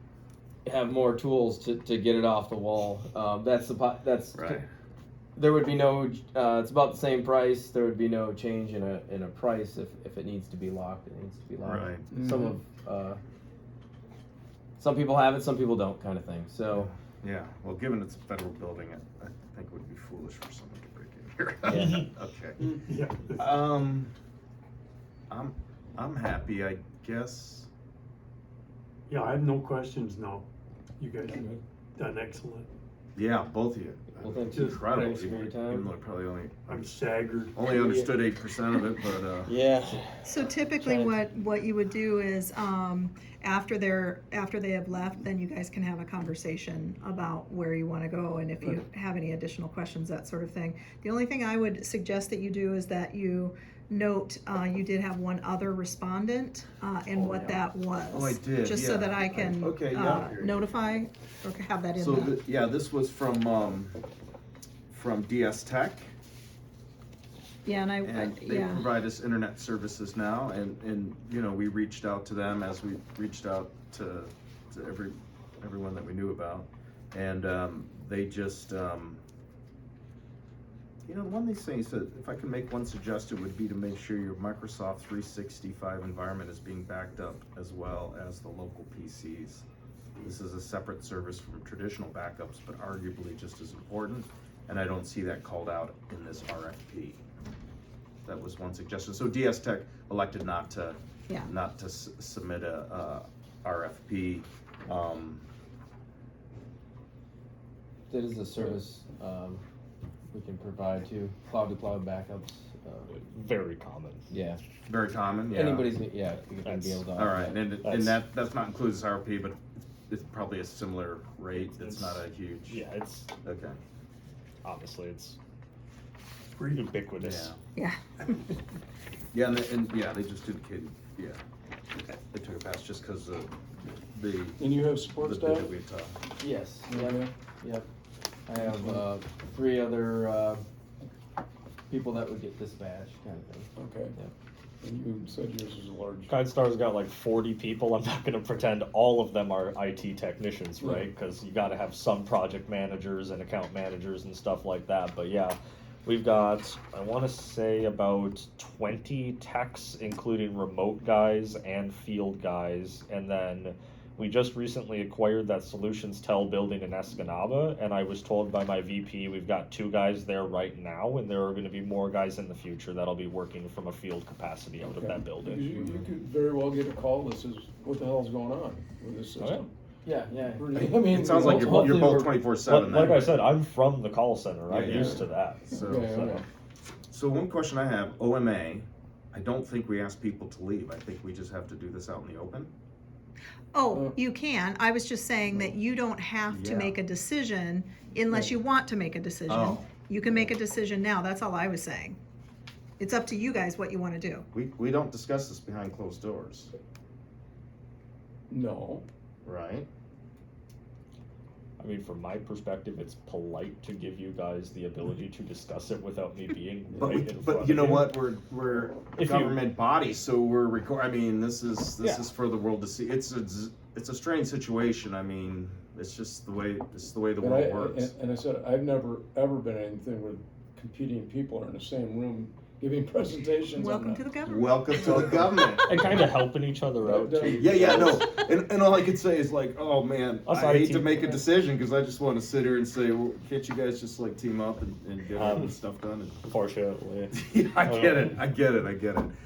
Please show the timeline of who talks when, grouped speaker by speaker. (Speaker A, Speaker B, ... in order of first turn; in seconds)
Speaker A: 0.6-4.6, 5.3-13.2, 14.8-16.9, 21.6-22.1, 34.2-35.9, 37.7-38.1, 39.4-40.2, 40.8-41.1, 108.1-109.6, 110.3-113.2, 114.3-114.6, 115.5-117.6, 136.4-137.8, 138.5-140.6, 141.9-144.3, 180.0-182.3
Speaker B: 4.3-4.7, 11.6-12.1, 16.7-22.6, 23.3-24.1, 25.3-27.7, 33.1-36.8, 37.5-39.5, 58.1-60.7, 62.0-64.0, 64.9-66.1, 68.0-79.2, 81.0-89.7, 90.2-97.2, 98.2-105.5, 114.9-115.9, 117.2-122.8, 123.4-123.8, 127.2-127.6, 129.3-131.4, 132.2-133.5, 134.1-134.7, 135.2-136.1, 180.7-183.3, 184.7-186.2, 187.1-192.7, 196.5-196.9, 199.5-199.9, 204.5-206.7, 209.4-209.9, 216.9-228.1, 234.4-236.0, 237.4-246.4, 247.3-249.3
Speaker C: 12.1-12.5, 134.6-135.7, 136.9-137.3, 138.5-139.0, 143.8-144.1, 144.8-146.3, 150.8-151.1, 174.9-179.7, 180.5-182.1, 185.8-186.4, 193.9-194.2, 208.5-209.1, 227.4-234.2, 237.0-238.2
Speaker D: 22.9-23.5, 29.1-30.4, 31.0-32.7, 34.5-35.0, 36.7-37.6, 126.5-126.9
Speaker E: 40.2-62.3, 67.6-68.9, 193.7-202.2, 203.0-204.4, 233.7-235.5
Speaker F: 113.3-114.2, 116.6-117.0, 117.8-118.2, 121.5-123.3, 124.6-125.4, 126.7-127.5, 146.3-175.8, 179.4-179.6, 182.6-186.4, 211.8-218.1, 219.2-219.6, 222.0-222.2, 235.8-238.2, 240.4-241.4, 245.3-245.7, 246.4-248.4